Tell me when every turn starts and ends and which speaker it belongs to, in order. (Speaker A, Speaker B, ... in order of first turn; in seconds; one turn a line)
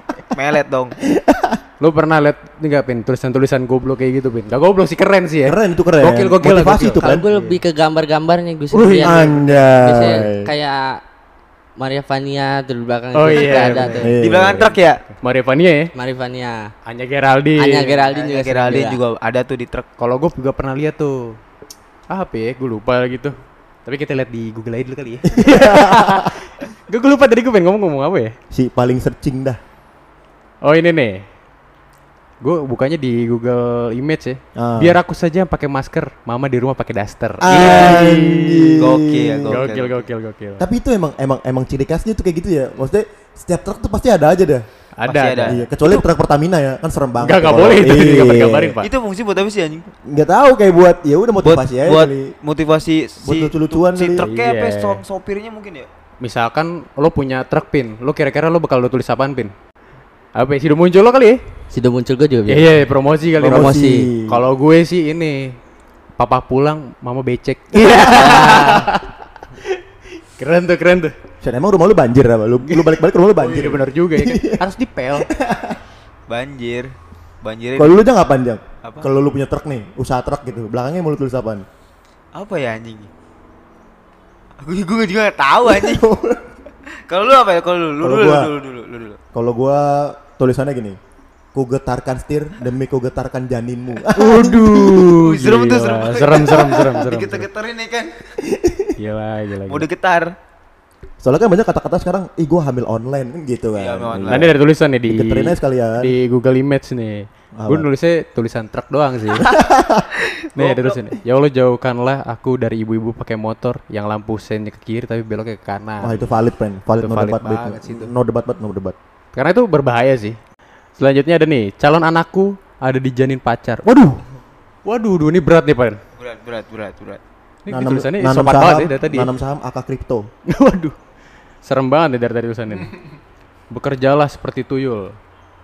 Speaker A: 0.3-0.9
Speaker B: 1.0-1.6
Speaker C: 1.8-7.6
Speaker B: 5.5-7.3
Speaker D: 7.0-11.0
Speaker B: 8.7-10.5
Speaker D: 11.8-14.1
Speaker C: 13.1-14.1
Speaker B: 14.0-14.8
Speaker A: 14.2-15.0
Speaker C: 15.2-15.9
Speaker D: 15.9-16.7
Speaker C: 16.9-18.1
Speaker D: 17.6-19.0
Speaker A: 18.1-19.9
Speaker C: 20.0-21.4
Speaker C: 22.1-28.4
Speaker B: 25.3-26.3
Speaker B: 28.5-29.6
Speaker C: 30.6-31.2
Speaker C: 32.4-38.8
Speaker B: 34.5-35.0
Speaker B: 37.4-39.6
Speaker A: 37.5-38.0
Speaker A: 38.8-40.0
Speaker C: 39.5-40.6
Speaker B: 40.6-44.6
Speaker C: 45.0-46.0
Speaker A: 45.1-45.6
Speaker B: 45.4-48.8
Speaker C: 47.2-48.9
Speaker A: 48.8-49.9
Speaker B: 50.0-52.3
Speaker A: 51.4-55.9
Speaker B: 53.2-54.2
Speaker C: 54.2-55.0
Speaker C: 56.2-59.5
Speaker C: 60.4-61.4
Speaker D: 61.7-62.8
Speaker C: 62.5-65.6
Speaker B: 63.4-64.4
Speaker D: 63.4-64.1
Speaker C: 66.2-71.1
Speaker D: 67.8-68.9
Speaker B: 71.4-74.6
Speaker C: 72.6-75.3
Speaker B: 75.2-75.8
Speaker A: 76.3-76.9
Speaker A: 77.4-78.0
Speaker B: 77.8-81.7
Speaker A: 78.8-79.1
Speaker A: 82.3-83.1
Speaker A: 84.6-86.0
Speaker B: 85.6-86.5
Speaker A: 87.1-89.2
Speaker B: 88.0-88.5
Speaker B: 89.3-91.0
Speaker B: 91.5-95.1
Speaker C: 94.1-97.5
Speaker A: 95.0-98.2
Speaker B: 98.4-98.9
Speaker C: 99.0-99.8
Speaker A: 99.7-100.3
Speaker B: 101.2-104.5
Speaker A: 103.8-104.5
Speaker C: 104.3-109.5
Speaker B: 105.0-106.1
Speaker B: 107.6-107.8
Speaker B: 109.3-110.1
Speaker A: 110.2-111.0
Speaker C: 110.5-116.2
Speaker B: 116.0-118.9
Speaker C: 117.0-118.1
Speaker C: 119.3-120.4
Speaker C: 121.0-124.2
Speaker C: 124.8-126.0
Speaker A: 126.2-127.2
Speaker C: 127.6-129.3
Speaker B: 127.7-130.3
Speaker C: 130.5-131.0
Speaker C: 131.6-132.9
Speaker C: 133.7-135.1